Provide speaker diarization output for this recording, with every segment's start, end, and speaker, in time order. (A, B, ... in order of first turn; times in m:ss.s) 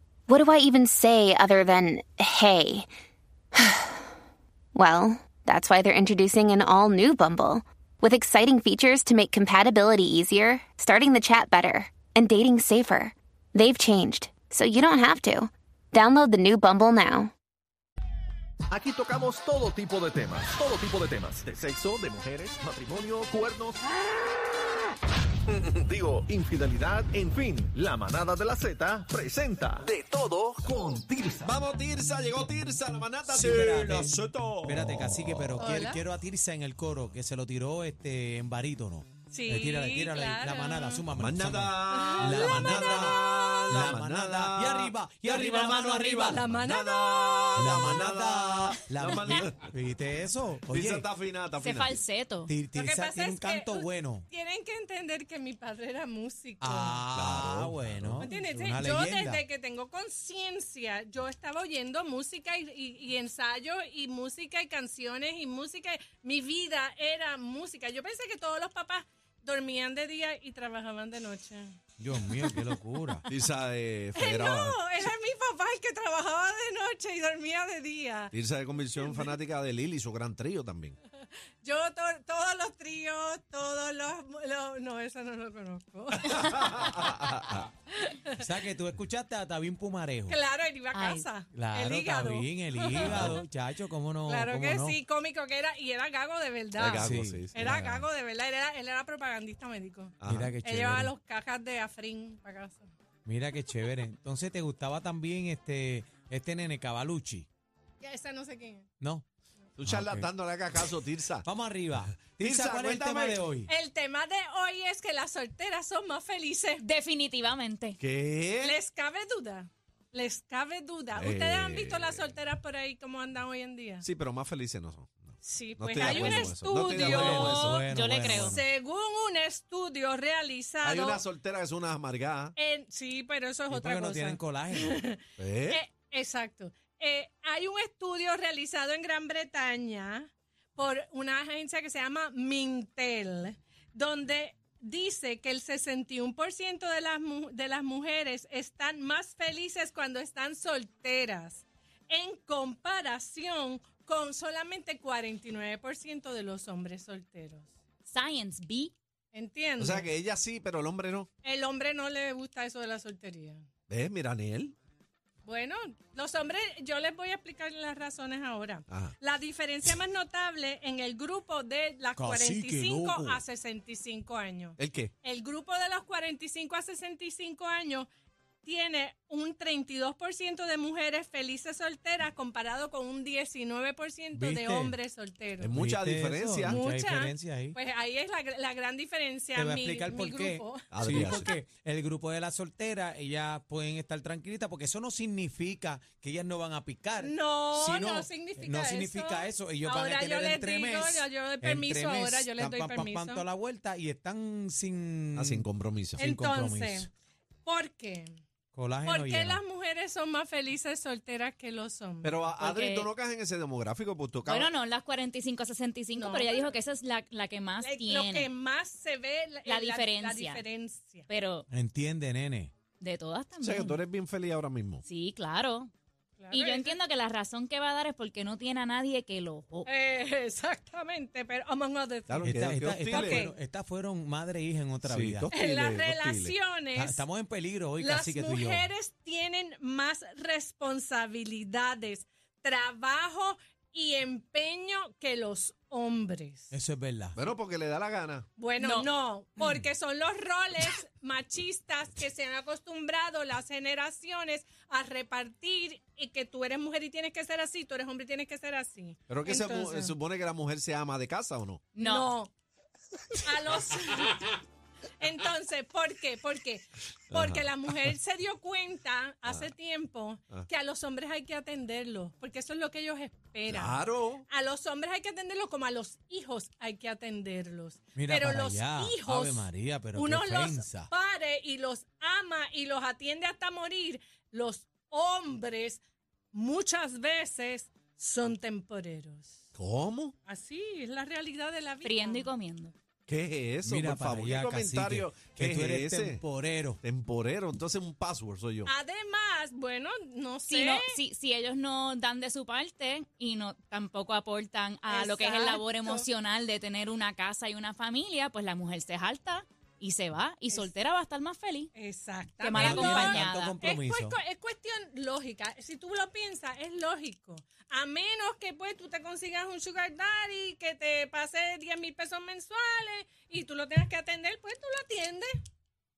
0:00.3-0:02.9 A
0:03.5-0:04.1 A
0:04.7-0:17.3 A
0:18.7-0:23.8 B
0:25.5-0:31.5 B
0:31.4-0:35.7 C
0:33.2-0:46.5 D
0:35.6-0:36.0 E
0:39.3-0:41.0 E
0:41.2-0:49.7 C
0:41.9-0:43.2 E
0:45.4-0:47.9 E
0:47.5-0:51.1 D
0:50.7-0:52.0 C
0:51.6-0:52.5 F
0:52.5-0:54.3 D
0:52.7-0:57.0 E
0:56.6-0:59.4 D
0:57.1-0:58.3 C
0:58.2-1:13.2 E
1:12.0-1:13.2 D
1:13.3-1:14.8 C
1:14.2-1:18.3 E
1:18.3-1:21.0 C
1:19.0-1:19.4 E
1:21.6-1:28.4 E
1:26.2-1:27.7 C
1:28.4-1:30.4 D
1:30.3-1:33.4 E
1:30.9-1:31.2 F
1:31.5-1:35.0 D
1:33.0-1:33.4 C
1:34.2-1:42.9 E
1:36.7-1:37.9 C
1:37.0-1:38.0 D
1:40.2-1:40.5 C
1:40.2-1:41.1 D
1:43.2-1:47.5 D
1:48.0-1:48.9 E
1:49.8-1:51.4 C
1:49.8-1:50.3 D
1:51.4-1:53.7 D
1:52.0-1:53.4 C
1:53.6-1:56.8 E
1:56.8-1:58.0 F
1:58.0-1:58.8 C
1:58.6-2:04.0 E
2:01.1-2:02.3 C
2:04.0-2:07.8 C
2:05.4-2:11.2 E
2:06.1-2:08.6 D
2:07.9-2:08.6 F
2:10.8-2:12.5 C
2:12.6-2:37.7 E
2:13.7-2:15.0 D
2:15.4-2:15.8 C
2:38.0-2:38.9 F
2:39.3-2:40.1 E
2:39.8-2:41.3 C
2:41.4-2:43.6 E
2:43.9-2:44.7 C
2:45.4-2:58.1 E
2:48.9-2:49.1 C
2:52.2-2:53.4 D
2:54.8-2:55.1 C
2:58.6-3:05.7 E
3:04.3-3:05.0 D
3:05.6-3:06.8 C
3:05.7-3:07.8 D
3:06.6-3:11.6 E
3:09.5-3:25.6 D
3:10.9-3:11.5 C
3:17.2-3:23.4 E
3:25.3-3:26.2 C
3:26.2-3:27.1 D
3:26.2-3:27.1 E
3:27.6-3:28.3 E
3:28.7-3:29.6 D
3:29.0-3:32.4 E
3:32.2-3:34.7 C
3:32.6-3:33.1 F
3:34.4-3:38.5 F
3:36.1-3:36.8 E
3:37.8-3:41.3 E
3:39.6-3:40.6 F
3:41.3-3:41.6 F
3:41.7-3:42.7 D
3:43.0-3:44.0 F
3:43.6-3:45.0 C
3:45.0-3:45.9 F
3:46.4-3:47.0 E
3:46.5-3:49.9 F
3:49.8-3:52.5 E
3:52.3-3:53.5 C
3:52.4-3:55.5 D
3:53.0-3:53.6 E
3:55.0-3:56.5 C
3:55.5-3:57.2 E
3:56.9-3:58.9 D
3:58.0-4:06.7 E
4:06.7-4:07.4 D
4:07.3-4:08.5 C
4:08.6-4:20.1 E
4:08.8-4:09.1 F
4:19.3-4:21.8 C
4:21.9-4:22.3 F
4:22.0-4:22.5 E
4:23.4-4:24.6 E
4:25.2-4:46.0 E
4:27.3-4:28.1 C
4:29.4-4:29.7 C
4:33.7-4:34.4 C
4:38.1-4:41.1 D
4:46.5-4:49.6 E
4:49.7-4:50.3 C
4:50.4-4:52.5 E
4:52.0-4:52.9 F
4:53.3-4:56.4 C
4:53.8-4:57.0 D
4:57.0-4:58.9 C
4:58.8-5:01.2 E
5:00.7-5:11.9 F
5:05.1-5:06.2 E
5:11.9-5:25.5 E
5:12.6-5:13.7 F
5:12.8-5:14.4 D